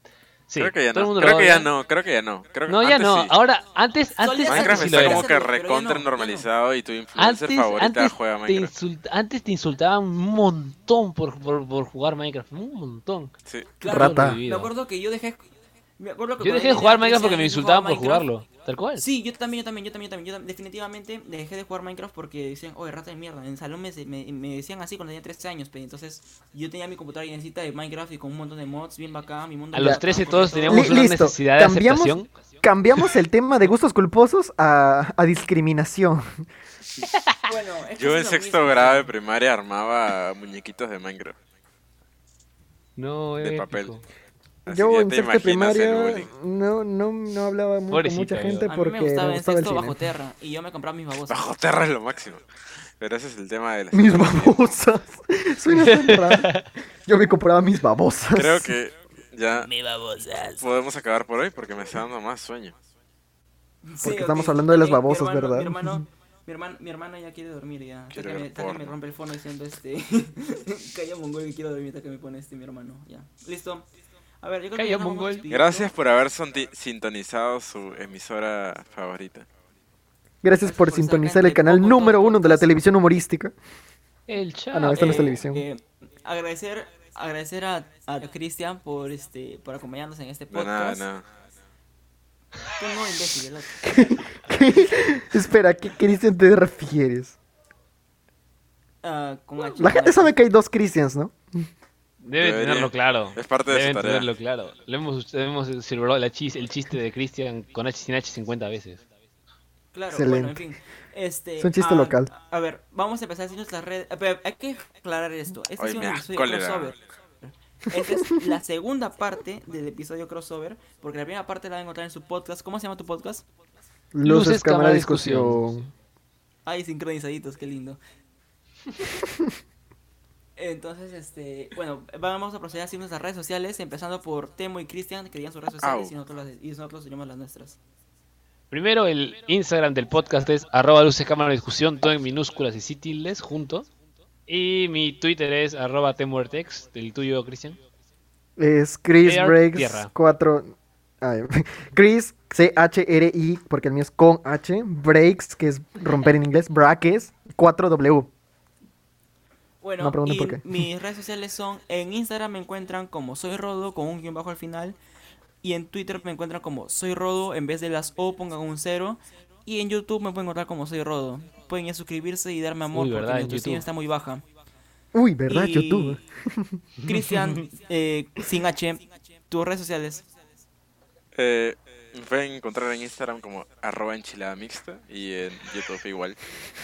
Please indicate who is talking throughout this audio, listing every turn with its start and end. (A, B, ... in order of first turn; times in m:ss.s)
0:00.5-0:01.7 A
0:00.6-0:03.3 B
0:02.7-0:05.3 A
0:04.2-0:06.5 C
0:04.5-0:08.7 B
0:07.2-0:13.3 A
0:13.5-0:13.7 B
0:13.8-0:15.4 C
0:13.8-0:14.7 A
0:13.9-0:14.4 D
0:16.0-0:18.3 C
0:16.4-0:19.1 A
0:19.0-0:31.0 C
0:29.7-0:32.3 A
0:30.7-0:36.2 D
0:37.0-0:37.4 A
0:37.4-0:39.1 C
0:38.0-0:41.4 B
0:43.0-0:44.0 A
0:43.4-0:43.9 B
0:44.6-0:46.3 B
0:44.7-0:50.0 D
0:47.9-0:48.7 A
0:48.6-0:51.4 C
0:51.3-0:52.4 B
0:53.0-0:54.6 B
0:53.9-0:58.7 D
0:55.7-0:56.6 A
0:58.4-0:59.7 B
0:59.7-1:00.6 A
1:00.6-1:02.8 B
1:03.8-1:13.9 C
1:04.0-1:06.0 D
1:08.1-1:08.9 B
1:14.4-1:15.9 C
1:14.7-1:15.4 A
1:15.5-1:19.5 B
1:20.4-1:23.5 D
1:20.6-1:22.7 C
1:24.3-1:25.3 A
1:24.7-1:25.6 D
1:24.9-1:31.0 C
1:30.5-1:31.2 B
1:32.7-1:34.2 C
1:33.8-1:37.4 D
1:39.0-1:40.3 C
1:39.8-1:41.7 D
1:42.2-1:49.0 A
1:42.4-1:44.3 B
1:49.9-2:03.4 C
1:50.1-1:50.6 D
1:51.6-1:52.3 D
1:55.8-1:56.9 B
1:58.0-1:58.6 D
2:04.1-2:05.9 D
2:04.2-2:05.6 A
2:06.6-2:08.0 C
2:10.6-2:17.8 C
2:15.8-2:16.1 B
2:18.7-2:23.9 A
2:24.5-2:27.8 A
2:28.6-2:38.3 D
2:29.2-2:30.1 A
2:39.8-2:45.0 C
2:40.0-2:40.6 D
2:45.6-2:54.4 C
2:52.9-2:53.8 A
2:55.1-2:56.8 D
2:55.5-2:56.2 C
2:57.0-3:00.2 C
3:01.3-3:06.4 B